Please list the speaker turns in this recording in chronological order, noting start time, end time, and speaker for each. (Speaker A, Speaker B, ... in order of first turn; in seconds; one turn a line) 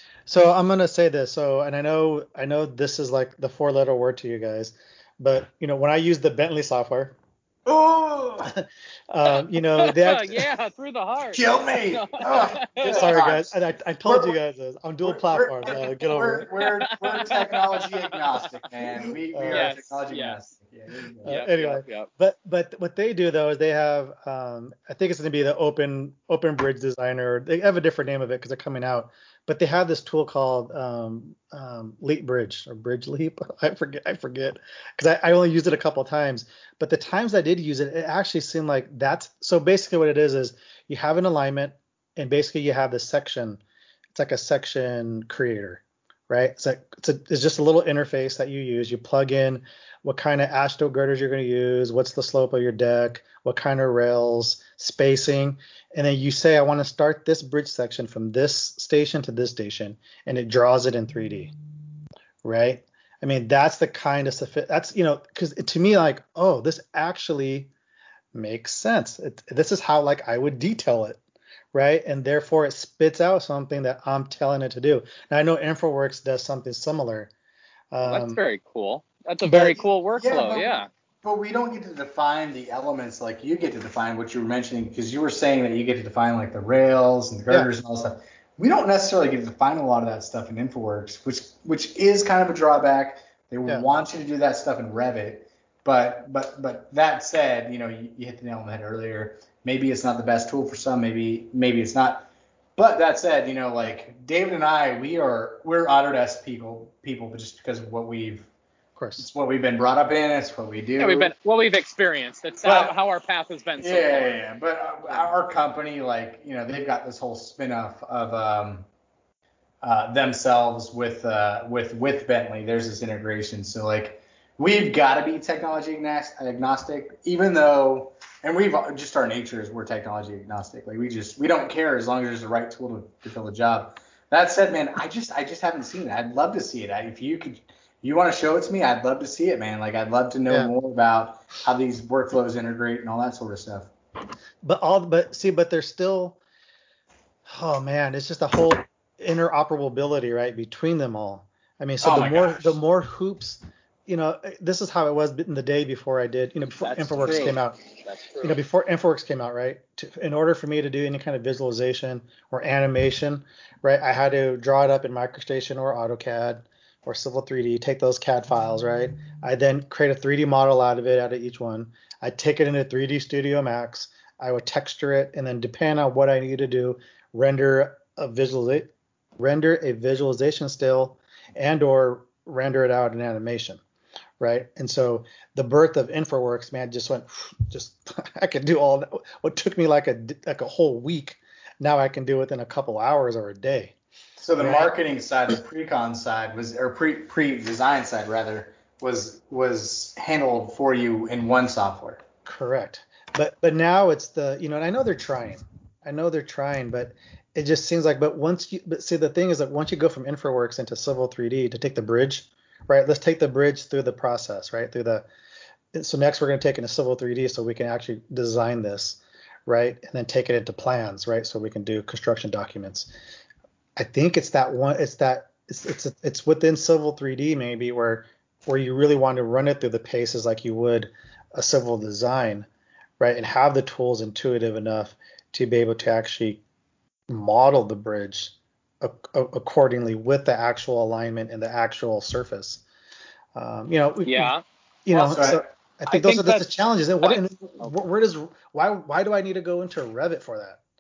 Speaker A: 0.3-7.2
Speaker B: 7.7-8.5
Speaker A: 8.4-10.5
Speaker C: 9.8-13.2
Speaker B: 11.3-14.4
Speaker A: 12.8-16.5
Speaker B: 15.0-21.4
Speaker C: 16.6-17.9
Speaker A: 19.3-19.7
Speaker C: 19.5-20.4
Speaker A: 21.2-43.6
Speaker C: 21.3-22.1
Speaker A: 44.1-61.5
Speaker A: 62.4-67.7
Speaker A: 68.3-71.2
Speaker A: 71.7-77.3
Speaker A: 77.9-78.4
Speaker C: 78.0-80.9
Speaker A: 79.4-79.8
Speaker B: 80.2-108.5
Speaker A: 109.0-109.3
Speaker B: 109.2-111.3
Speaker C: 111.0-114.4
Speaker B: 112.6-112.9
Speaker B: 113.8-118.9
Speaker B: 119.8-143.9
Speaker A: 144.6-146.4
Speaker A: 147.5-157.8
Speaker B: 152.0-152.8
Speaker C: 156.8-158.6
Speaker A: 158.4-183.8
Speaker A: 184.4-193.9
Speaker B: 194.4-202.2
Speaker A: 194.6-194.9
Speaker A: 202.4-215.3
Speaker A: 215.9-223.1
Speaker A: 224.0-232.7
Speaker A: 233.2-236.6
Speaker A: 237.3-242.8
Speaker A: 243.6-244.6
Speaker C: 244.2-244.6
Speaker A: 245.1-250.8
Speaker B: 245.1-245.6
Speaker C: 246.1-247.9